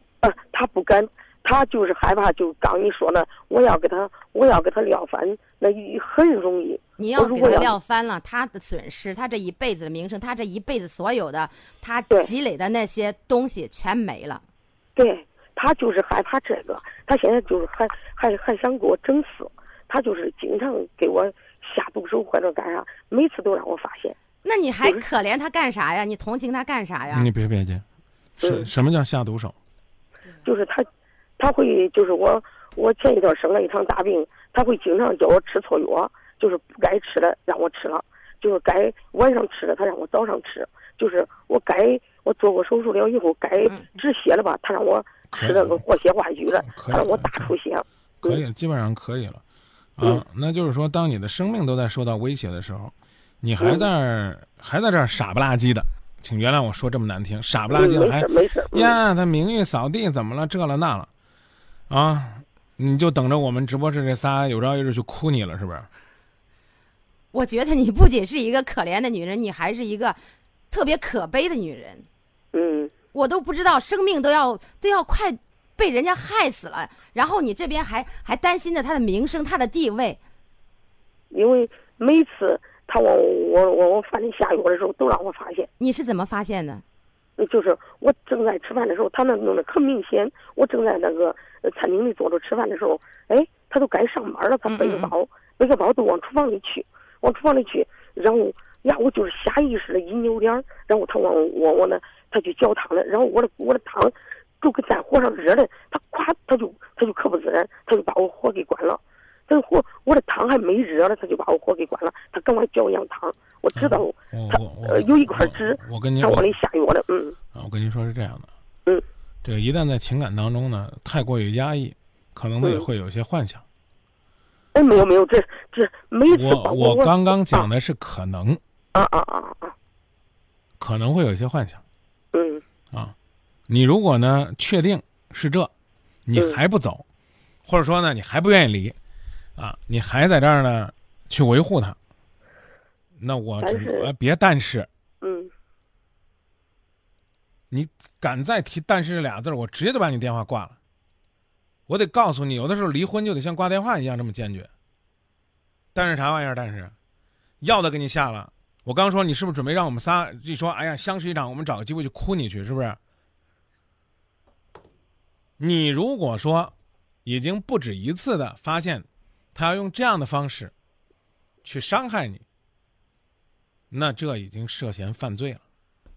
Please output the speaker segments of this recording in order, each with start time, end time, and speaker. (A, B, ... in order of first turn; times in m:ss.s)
0:00.2-0:07.7 A
0:07.0-0:14.4 B
0:15.0-0:24.1 A
0:24.4-0:27.3 B
0:27.1-0:27.8 C
0:28.4-0:28.7 A
0:28.4-0:29.6 C
0:30.4-0:30.9 A
0:31.4-0:48.4 A
0:45.3-0:45.8 C
0:46.5-0:47.5 C
0:48.2-0:49.4 C
0:50.0-1:01.1 C
0:53.6-0:53.9 A
0:57.7-0:59.0 A
1:01.9-1:05.9 C
1:07.3-1:12.1 B
1:12.5-1:12.9 A
1:13.1-1:20.2 B
1:21.3-1:25.7 A
1:25.8-1:26.8 B
1:27.4-1:57.4 A
1:34.7-1:35.1 B
1:53.8-1:56.5 C
1:57.5-1:58.5 C
1:59.4-2:03.6 C
2:02.6-2:02.9 A
2:04.7-2:07.7 A
2:06.3-2:08.6 C
2:08.9-2:09.7 A
2:10.8-2:11.8 C
2:12.3-2:12.6 A
2:13.7-2:15.7 C
2:16.3-2:17.0 C
2:16.3-2:16.6 A
2:17.6-2:19.0 C
2:19.6-2:22.0 C
2:23.2-2:24.9 C
2:23.6-2:24.1 A
2:25.2-2:25.5 A
2:27.7-2:30.8 C
2:31.9-2:34.7 C
2:35.9-2:36.9 C
2:37.6-2:43.0 C
2:45.6-2:46.7 C
2:47.2-2:50.7 C
2:51.6-2:52.4 C
2:53.9-2:55.6 C